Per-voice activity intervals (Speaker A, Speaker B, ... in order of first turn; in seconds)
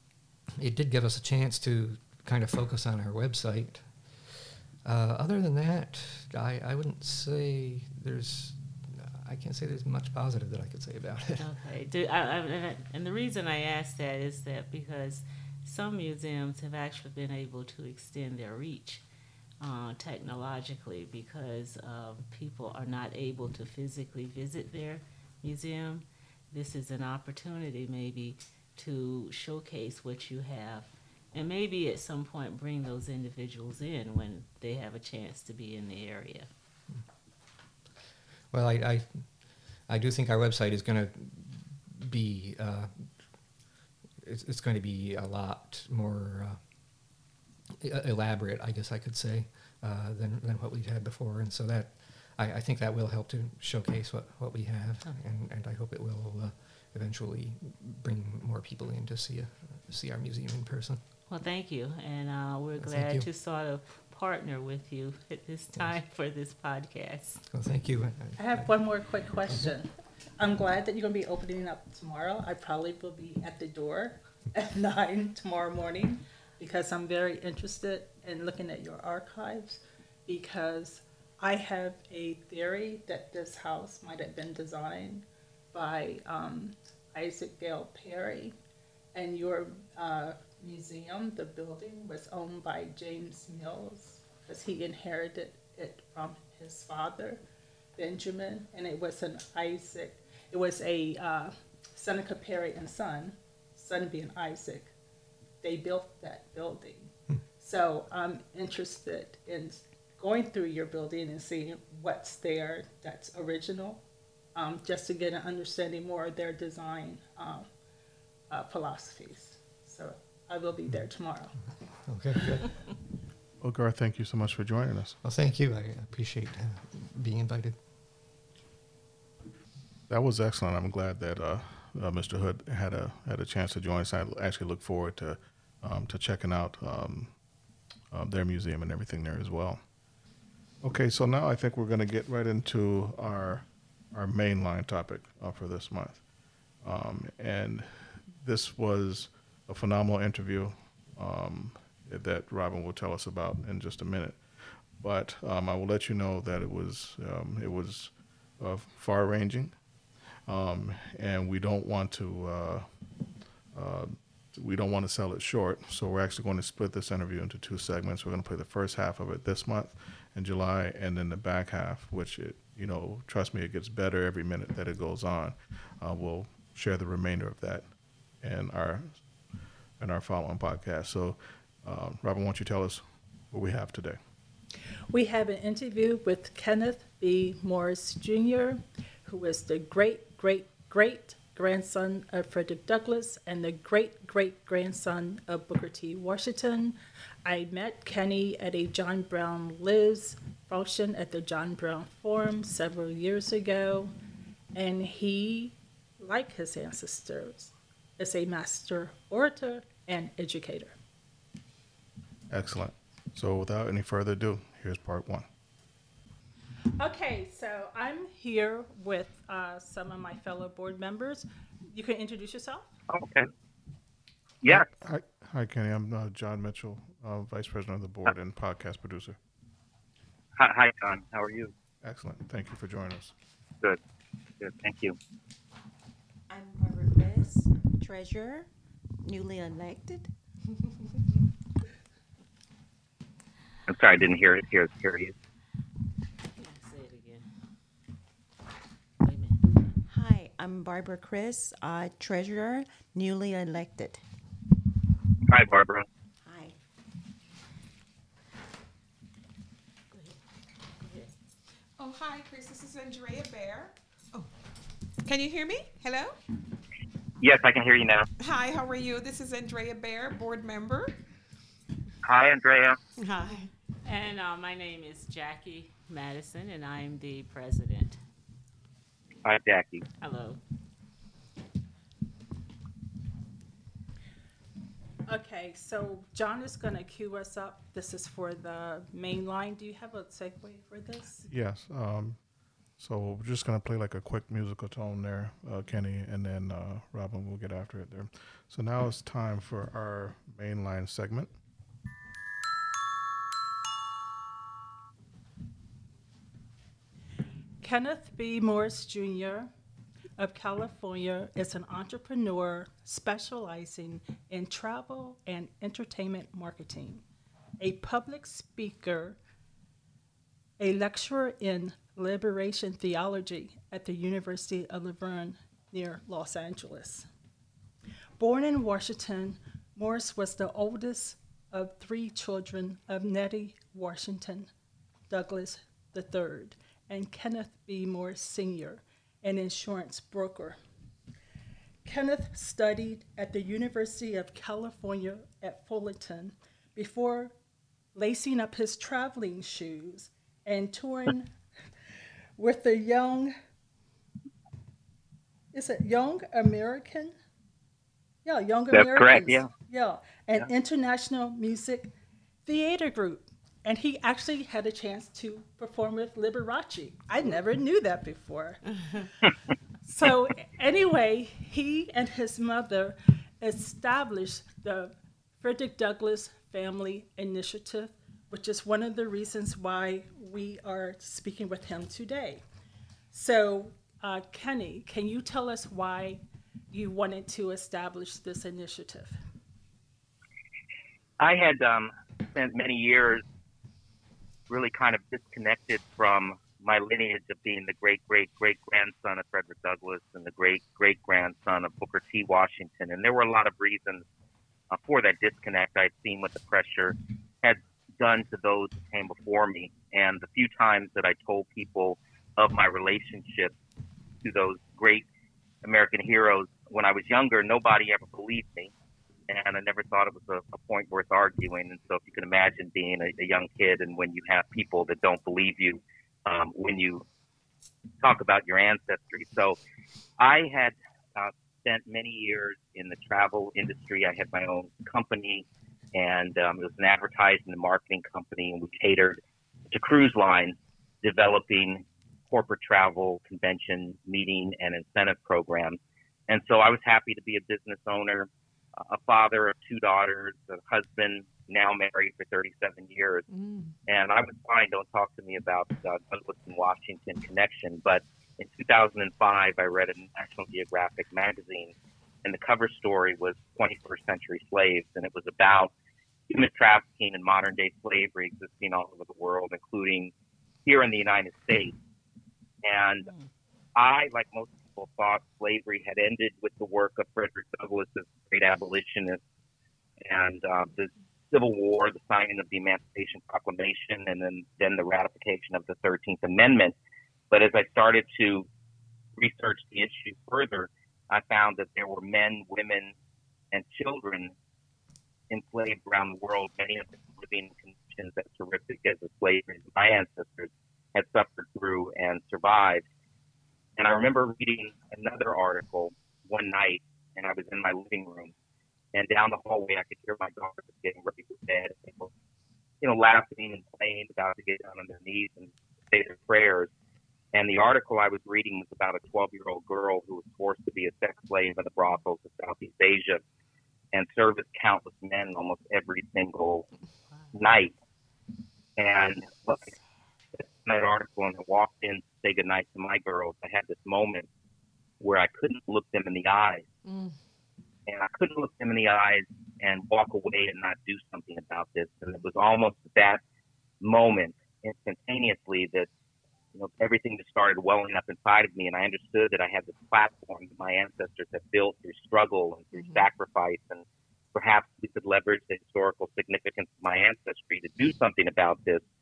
Speaker A: 0.6-11.5, 38.5-39.3, 39.9-43.1, 44.2-46.6, 47.8-61.0, 62.8-63.3, 67.5-68.8, 122.0-122.8, 125.2-127.8
Speaker B: 11.4-19.0, 19.6-36.5, 61.3-67.4, 246.6-247.5, 249.2-249.6, 261.0-261.3, 274.1-278.2, 280.2-280.6
Speaker C: 68.4-88.5, 89.2-97.4, 98.0-104.9, 105.6-114.0, 114.5-117.7, 118.5-121.6, 185.1-204.1, 204.8-210.9, 217.0-222.9, 285.3-291.5, 307.8-309.7, 310.4-317.2, 317.8-319.4, 320.8-327.3, 328.4-334.7, 335.3-340.8, 342.1-347.5, 348.1-351.5, 352.6-353.5, 355.7-357.3, 358.4-362.1, 362.7-368.9, 370.1-382.6, 383.3-389.4
Speaker D: 123.6-125.2, 130.1-137.3, 138.1-139.8, 140.8-146.2, 146.8-154.4, 154.9-159.8, 160.5-162.9, 163.7-179.2, 180.0-184.2, 212.5-215.5, 224.7-229.4, 232.0-233.3, 291.5-292.4, 293.0-301.5
Speaker E: 223.1-223.5, 224.6-224.9, 230.6-231.7, 234.6-235.2, 243.9-245.3, 255.5-256.1, 267.4-268.3, 272.2-273.0, 279.4-280.1, 358.9-359.7, 391.4-393.4, 394.7-404.2, 404.9-413.8, 414.4-415.3, 415.8-418.9, 419.5-427.2, 428.2-429.8, 430.4-448.5, 449.0-453.4, 454.1-465.9, 466.5-470.3, 470.9-471.9, 472.8-473.3, 474.0-479.4, 480.2-486.9, 487.5-488.7, 489.4-493.1, 493.7-494.5, 495.5-503.1, 504.0-508.5, 509.1-512.3, 513.0-516.9, 517.5-523.4, 524.1-526.9, 527.5-527.9, 529.0-529.9, 530.6-534.5, 535.2-536.9, 538.1-543.4, 544.0-546.1, 546.7-559.0
Speaker F: 236.5-238.7, 239.2-240.3, 250.1-254.2, 256.4-256.8
Speaker G: 262.0-264.5, 265.2-266.4, 268.4-271.1, 273.2-273.7, 453.5-453.9, 537.0-537.4, 552.9-553.3